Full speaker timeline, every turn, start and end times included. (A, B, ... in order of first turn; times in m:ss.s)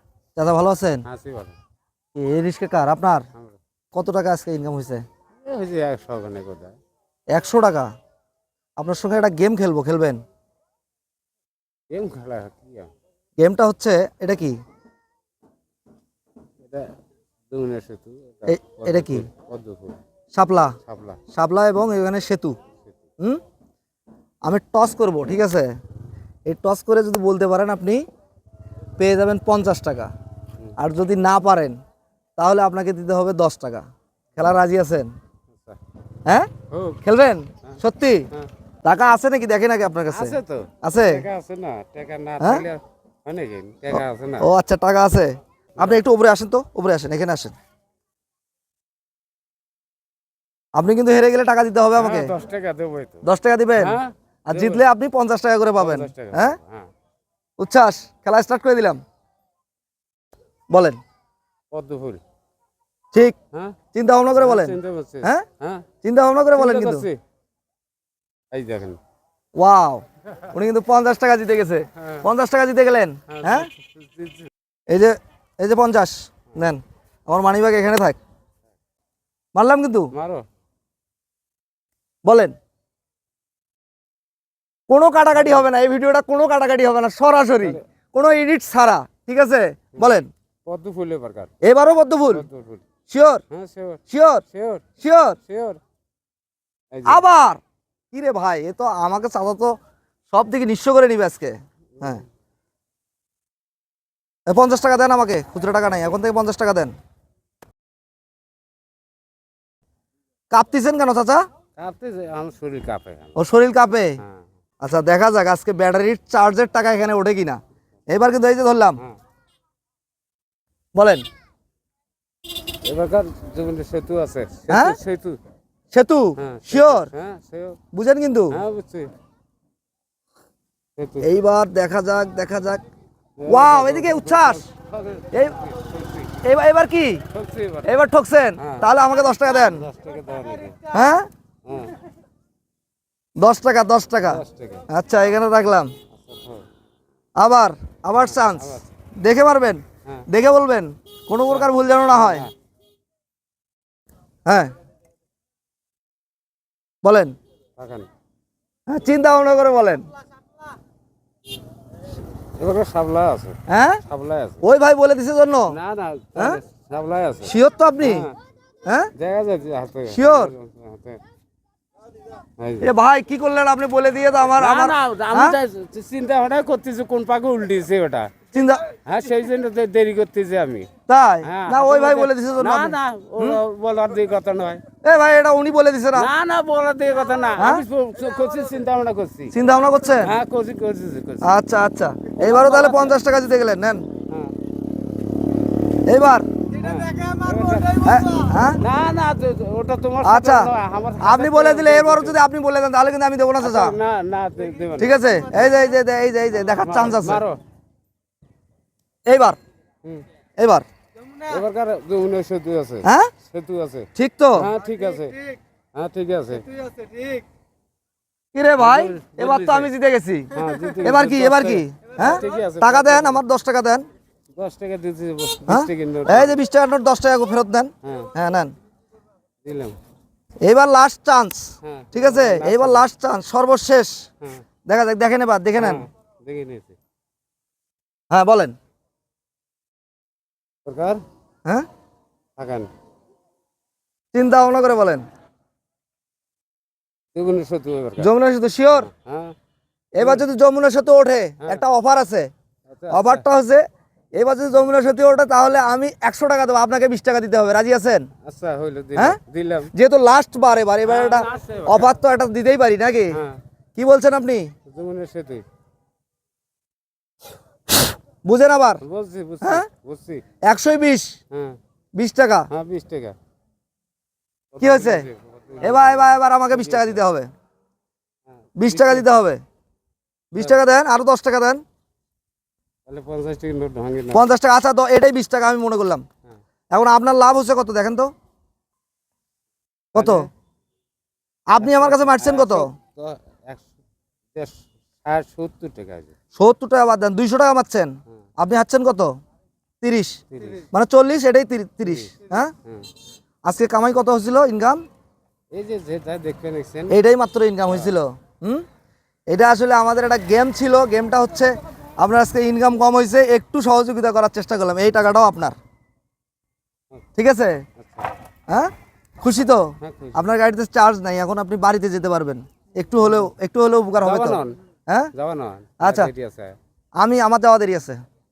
0:00.4-0:01.0 A
0:01.0-0:01.6 B
0:02.1-0:03.2 A
0:03.9-0:05.0 A
0:05.4-0:06.7 B
0:07.3-0:07.9 A
0:08.8-0:10.2 A
0:11.9-0:12.9 B
0:13.4-0:14.6 A
0:16.6-0:16.9 B
0:17.5-0:20.0 B
0:18.4-0:19.3 A
0:20.3-0:20.7 A
0:20.8-0:21.2 B
0:21.3-0:22.6 A
0:24.4-0:25.7 A
0:26.4-0:28.0 A
0:29.0-0:30.1 A
0:30.8-0:31.8 A
0:32.4-0:35.1 A
0:35.5-0:35.8 B
0:36.7-0:37.0 B
0:37.0-0:38.3 A
0:38.8-0:41.2 A
0:40.1-0:44.5 B
0:42.4-0:42.6 A
0:43.9-0:47.5 A
0:50.7-0:52.3 A
0:52.0-0:54.8 B
0:53.2-0:56.6 A
0:55.8-0:56.8 B
0:57.6-0:59.0 A
1:00.7-1:01.0 A
1:01.7-1:02.2 B
1:03.9-1:05.4 A
1:04.4-1:05.8 B
1:06.0-1:07.1 A
1:06.5-1:07.2 B
1:08.5-1:09.0 B
1:09.6-1:13.7 A
1:12.0-1:12.3 B
1:13.3-1:14.5 B
1:14.9-1:18.2 A
1:19.5-1:20.1 A
1:20.1-1:20.4 B
1:22.2-1:22.5 A
1:24.9-1:30.3 A
1:25.3-1:25.6 B
1:30.0-1:31.5 B
1:31.6-1:32.4 A
1:32.3-1:32.8 B
1:33.1-1:33.4 A
1:33.5-1:34.8 B
1:34.1-1:34.4 A
1:35.0-1:35.4 A
1:35.5-1:35.8 B
1:36.9-1:37.2 B
1:37.0-1:37.6 A
1:38.1-1:39.8 A
1:40.3-1:42.2 A
1:42.0-1:42.2 B
1:44.5-1:46.9 A
1:50.5-1:51.4 A
1:51.8-1:53.4 B
1:53.4-1:54.2 A
1:54.8-1:59.0 A
2:00.9-2:01.2 A
2:02.8-2:05.4 B
2:04.7-2:05.0 A
2:05.9-2:07.1 A
2:06.4-2:07.8 B
2:07.9-2:08.6 A
2:08.5-2:09.1 B
2:11.0-2:11.3 B
2:11.2-2:12.8 A
2:13.4-2:16.4 B
2:13.5-2:14.6 A
2:16.4-2:17.2 A
2:17.3-2:18.0 B
2:17.8-2:19.9 A
2:18.6-2:18.9 B
2:19.5-2:20.8 B
2:20.9-2:21.3 A
2:21.6-2:21.9 B
2:23.4-2:25.9 A
2:24.2-2:24.8 B
2:26.1-2:26.6 B
2:27.4-2:32.5 A
2:28.2-2:28.9 B
2:31.4-2:32.5 B
2:34.4-2:34.7 A
2:37.0-2:37.3 A
2:37.8-2:38.1 B
2:38.9-2:40.0 A
2:42.6-2:44.6 B
2:43.7-2:44.0 A
2:44.6-2:45.8 A
2:45.7-2:48.3 B
2:47.4-2:48.3 A
2:48.8-2:49.1 A
2:49.2-2:51.2 B
2:50.1-2:50.5 A
2:52.6-2:52.9 B
2:52.8-2:55.6 A
2:54.5-2:58.3 B
2:58.5-2:58.8 A
2:59.0-3:00.9 B
3:01.1-3:03.6 A
3:01.4-3:04.8 B
3:05.0-3:06.3 A
3:06.1-3:09.5 B
3:09.5-3:10.3 A
3:10.2-3:11.5 B
3:11.4-3:14.0 A
3:12.4-3:13.2 B
3:16.0-3:16.5 A
3:16.8-3:18.2 B
3:18.0-3:18.8 A
3:18.8-3:22.4 B
3:20.2-3:24.0 A
3:23.6-3:25.8 B
3:25.0-3:27.4 A
3:26.5-3:27.6 B
3:29.2-3:29.6 A
3:30.6-3:30.8 A
3:31.4-3:35.4 B
3:33.0-3:33.3 A
3:34.2-3:34.7 A
3:35.9-3:37.4 B
3:38.5-3:40.5 A
3:38.8-3:39.9 B
3:40.5-3:43.4 B
3:41.0-3:44.0 A
3:44.5-3:46.6 B
3:45.7-3:48.7 A
3:48.0-3:48.3 B
3:49.6-3:50.0 B
3:50.6-3:54.2 A
3:51.8-3:53.0 B
3:54.8-3:56.0 A
3:55.8-3:56.9 B
3:58.3-3:58.7 A
4:00.8-4:01.2 B
4:02.6-4:02.9 B
4:04.3-4:05.2 A
4:07.3-4:08.3 B
4:08.2-4:09.1 A
4:08.9-4:09.5 B
4:10.1-4:12.5 A
4:10.2-4:10.4 B
4:12.9-4:13.4 B
4:13.1-4:13.8 A
4:14.3-4:18.3 A
4:18.4-4:19.9 B
4:19.9-4:23.4 A
4:21.0-4:22.2 B
4:23.3-4:23.6 B
4:24.0-4:24.7 A
4:24.9-4:25.6 B
4:28.4-4:29.0 A
4:29.0-4:30.4 B
4:29.6-4:29.9 A
4:30.6-4:31.3 A
4:31.5-4:31.8 B
4:32.2-4:32.7 A
4:32.7-4:33.3 B
4:34.7-4:37.2 B
4:34.8-4:35.2 A
4:35.8-4:37.5 A
4:38.6-4:39.2 B
4:38.8-4:39.6 A
4:40.5-4:41.8 A
4:43.0-4:44.5 B
4:44.3-4:46.2 A
4:46.9-4:48.3 A
4:50.1-4:50.5 A
4:50.1-4:50.5 B
4:51.7-4:52.9 A
4:51.8-4:53.9 B
4:54.5-4:56.3 B
4:56.5-4:59.3 A
5:00.0-5:00.4 A
5:00.5-5:00.9 B
5:00.9-5:02.7 A
5:02.0-5:02.3 B
5:03.6-5:05.0 A
5:05.7-5:07.2 B
5:07.1-5:08.8 A
5:07.9-5:08.1 B
5:09.5-5:15.8 A
5:17.4-5:17.8 A
5:18.0-5:18.3 B
5:19.4-5:25.3 A
5:20.0-5:20.4 B
5:24.2-5:24.8 B
5:25.3-5:26.8 B
5:26.0-5:26.3 A
5:27.2-5:28.2 A